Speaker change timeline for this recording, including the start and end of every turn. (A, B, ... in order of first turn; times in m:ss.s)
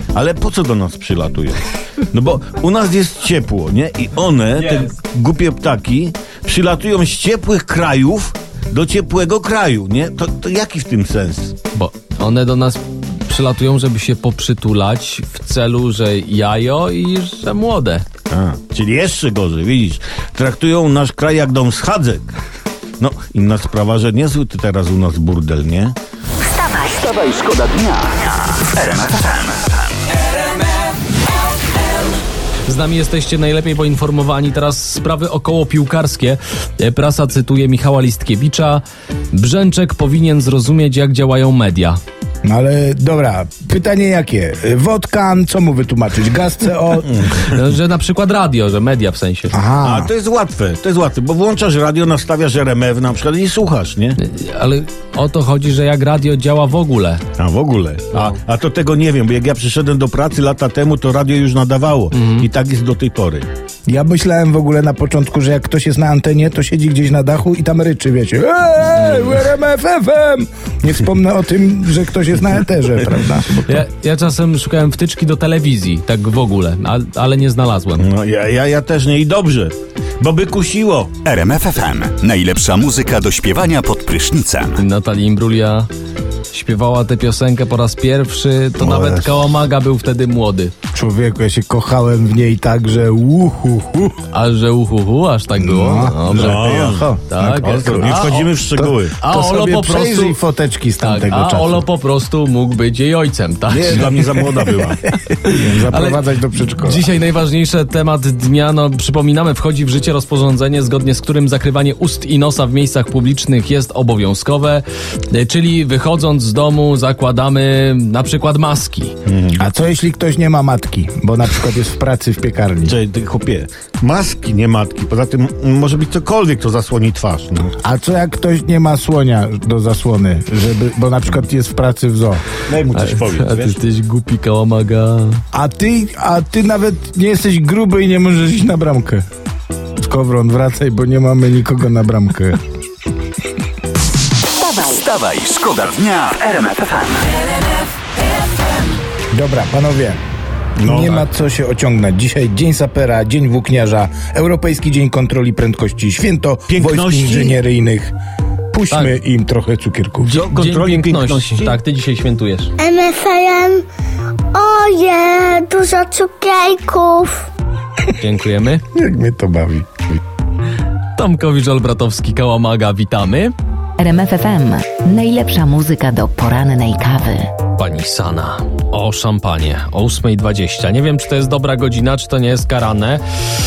0:00.1-0:11.6 A
0:11.7-0:18.0 B
0:18.3-0:22.3 A
0:23.0-0:26.0 A
0:26.4-0:27.4 C
0:27.1-0:29.8 D
0:32.6-0:42.0 B
0:42.4-0:47.2 E
0:47.1-0:47.5 A
0:47.5-0:49.6 B
0:49.5-0:50.1 E
0:49.8-0:54.2 A
0:54.2-0:57.2 B
0:57.4-1:03.5 A
1:02.1-1:02.4 B
1:03.9-1:13.8 E
1:13.6-1:18.1 B
1:18.0-1:21.2 A
1:21.2-1:24.8 D
1:24.8-1:25.9 B
1:26.5-1:30.7 B
1:28.8-1:29.2 A
1:30.9-1:34.2 E
1:34.3-1:36.7 B
1:35.6-1:41.8 E
1:36.3-1:37.1 A
1:37.3-1:38.5 B
1:37.6-1:39.2 A
1:39.2-1:40.4 B
1:41.0-1:44.7 B
1:43.7-1:45.0 A
1:45.2-1:59.1 B
1:45.4-1:47.1 E
1:59.2-1:59.6 A
1:59.6-2:03.0 E
2:02.8-2:07.7 A
2:07.8-2:12.4 E
2:12.6-2:13.8 A
2:12.9-2:15.4 B
2:15.5-2:19.2 E
2:20.0-2:22.6 E
2:24.6-2:25.1 C
2:24.8-2:27.3 D
2:29.3-2:30.2 E
2:30.8-2:38.1 E
2:30.8-2:31.2 A
2:36.7-2:37.6 A
2:38.7-2:40.4 E
2:40.2-2:42.7 B
2:40.4-2:41.8 A
2:42.8-2:43.8 F
2:44.5-2:47.4 F
2:48.2-2:48.8 B
2:48.9-2:50.2 E
2:51.2-2:53.5 B
2:54.0-2:57.5 C
2:57.8-3:03.2 B